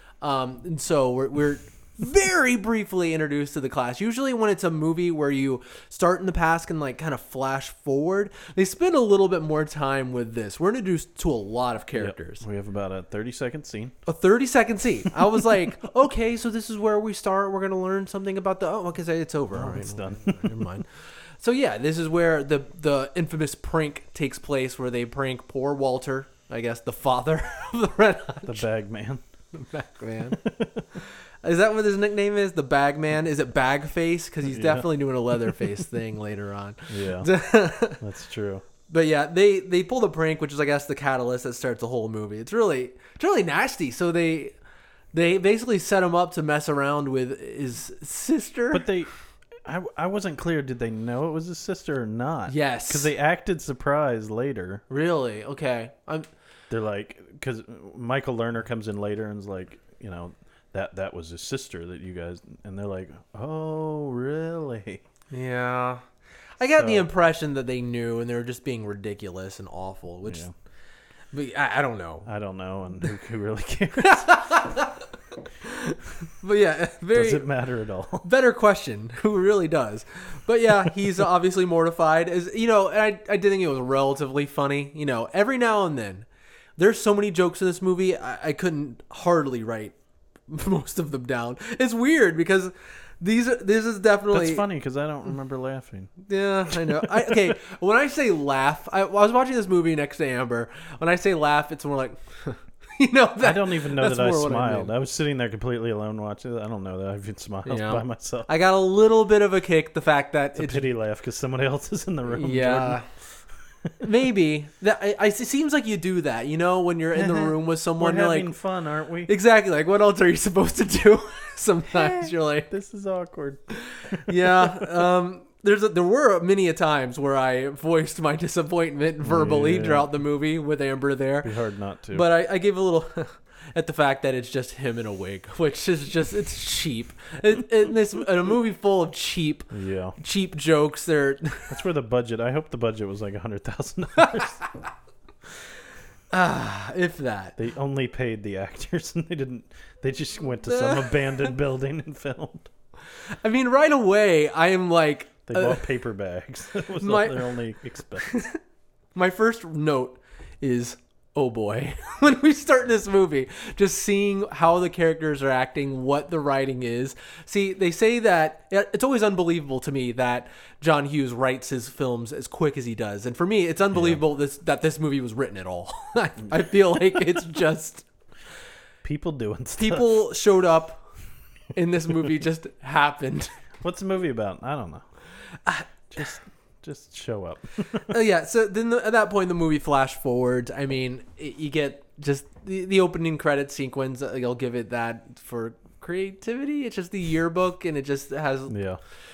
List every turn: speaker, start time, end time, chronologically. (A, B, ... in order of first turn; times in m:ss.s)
0:00.2-0:12.4 A
0:11.9-0:14.0 B
0:14.0-0:28.6 A
0:19.5-0:20.6 B
0:28.4-0:29.2 B
0:29.5-0:30.4 A
0:30.3-0:30.8 B
0:31.0-0:38.0 A
0:34.4-0:34.9 B
0:36.9-0:38.6 B
0:38.9-0:44.5 A
0:45.1-0:48.9 A
0:48.7-0:49.1 B
0:49.6-0:54.8 B
0:52.5-0:53.1 A
0:54.9-0:56.3 A
0:56.7-1:05.0 B
1:05.3-1:06.0 A
1:06.6-1:10.4 A
1:06.7-1:07.1 B
1:10.2-1:10.5 B
1:11.3-1:12.3 A
1:12.2-1:14.4 B
1:14.0-1:15.1 A
1:15.6-1:17.5 A
1:17.1-1:18.3 B
1:18.2-1:30.0 A
1:30.5-1:34.6 A
1:34.3-1:37.3 B
1:36.3-1:44.9 A
1:43.4-1:48.5 B
1:47.6-1:50.9 A
1:50.6-1:53.0 B
1:52.3-1:53.0 A
1:54.0-1:58.5 A
1:57.1-1:59.3 B
1:59.3-2:02.7 A
2:02.0-2:04.9 B
2:04.2-2:11.5 A
2:09.2-2:10.2 B
2:11.4-2:12.3 B
2:12.1-2:21.8 A
2:19.7-2:20.2 B
2:21.7-2:24.6 B
2:24.2-2:24.5 A
2:26.3-2:27.6 A
2:27.6-2:32.7 B
2:30.6-2:31.5 A
2:33.3-2:35.9 A
2:35.5-2:38.4 B
2:37.0-2:37.6 A
2:38.2-2:38.6 A
2:39.1-2:58.0 A
2:53.9-2:54.2 B
2:59.0-3:00.2 B
2:59.8-3:01.0 A
3:01.7-3:03.5 A
3:03.8-3:05.0 B
3:05.6-3:06.3 A
3:06.1-3:08.1 B
3:08.1-3:18.7 A
3:18.7-3:19.0 B